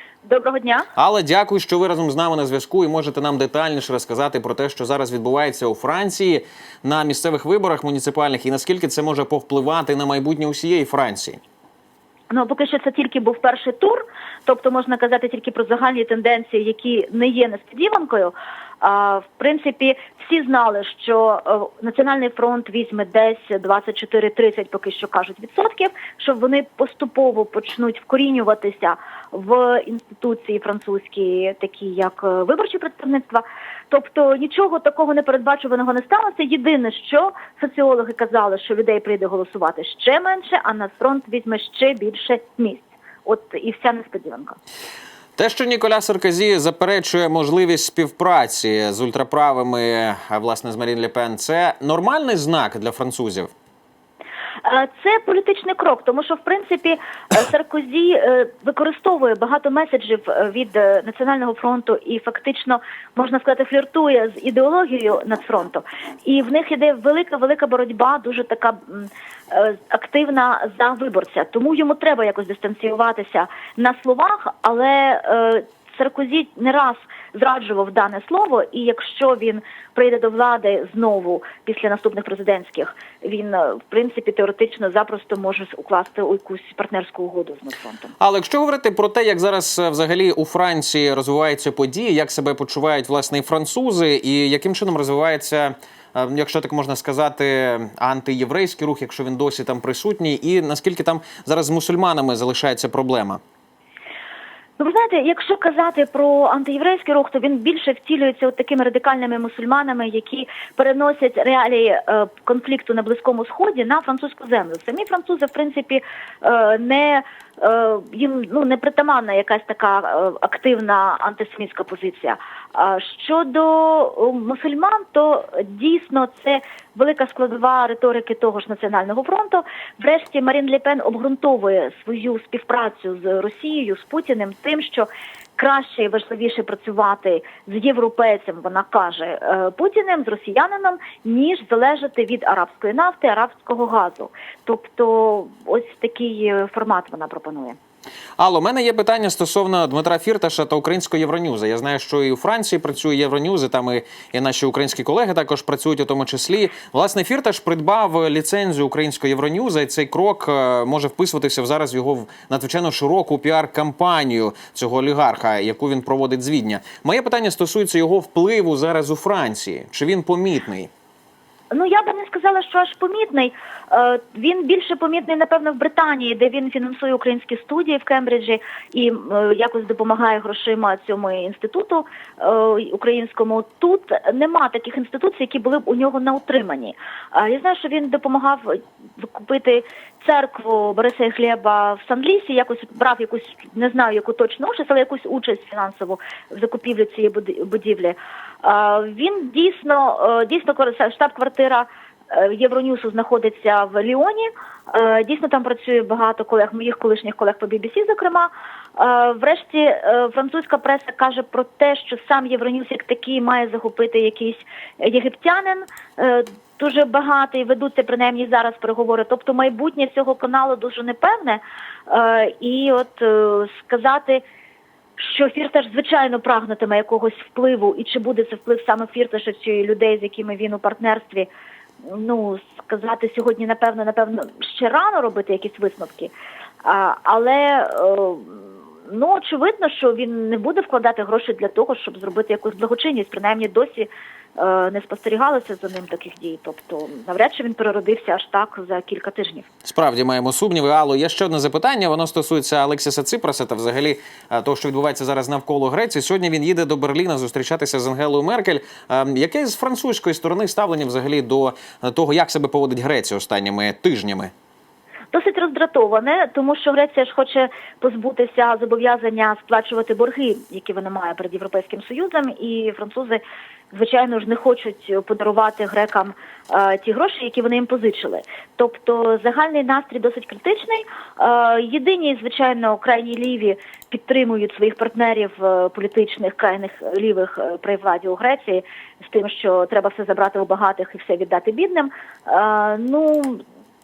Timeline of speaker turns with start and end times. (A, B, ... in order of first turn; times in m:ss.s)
0:00.2-0:00.9 A
0:01.0-0:11.4 B
0:12.3-0:44.6 A
0:45.4-0:53.5 B
0:54.6-1:28.1 A
1:28.2-1:43.4 B
1:44.8-2:27.8 A
2:28.4-2:50.9 B
2:51.7-3:44.4 A
3:45.2-3:51.5 A
3:52.0-4:09.7 A
4:09.8-4:24.5 B
4:25.3-4:53.6 A